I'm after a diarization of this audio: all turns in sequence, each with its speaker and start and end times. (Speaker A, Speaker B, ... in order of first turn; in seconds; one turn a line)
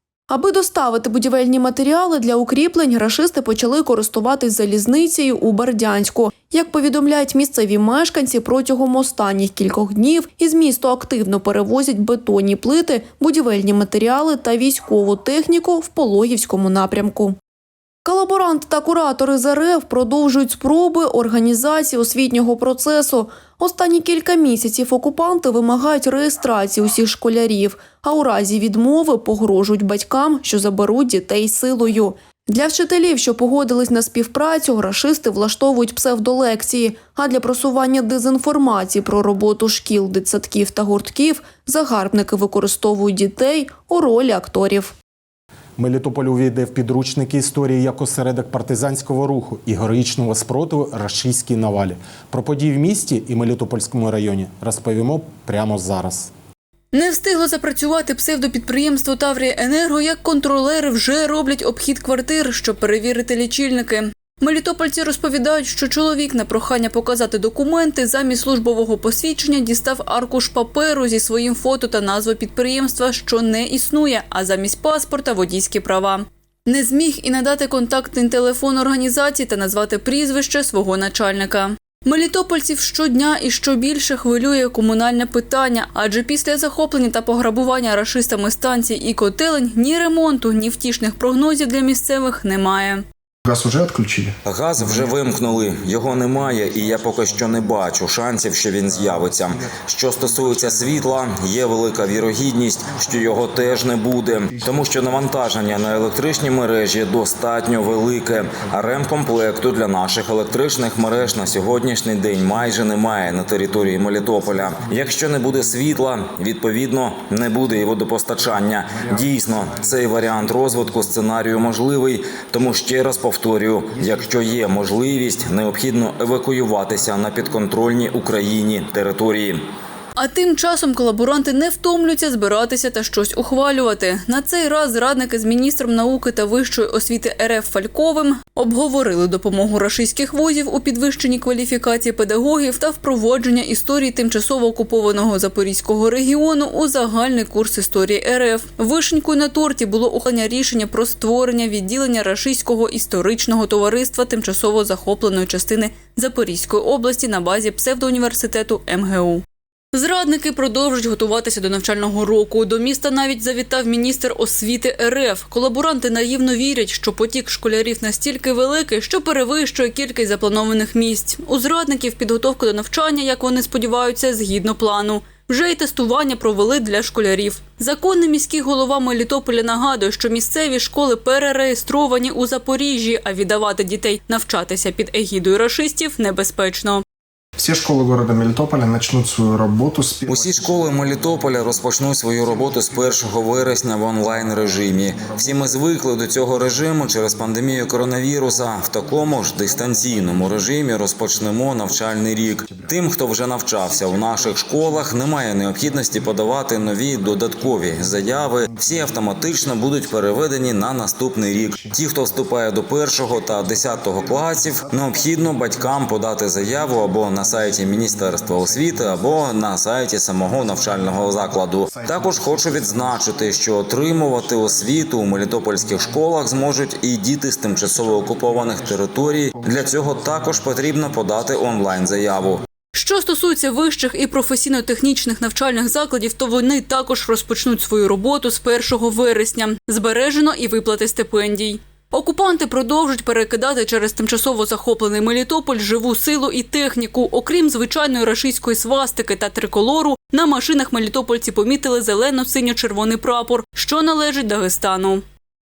Speaker A: 0.3-17.4
Speaker A: 18.0-44.9
Speaker B: 45.8-56.3
Speaker C: 56.9-93.0
Speaker D: 93.5-94.3
Speaker E: 94.5-129.7
Speaker C: 130.2-187.0
Speaker D: 187.6-191.2
Speaker E: 190.3-232.6
Speaker D: 221.9-222.7
Speaker C: 232.9-255.2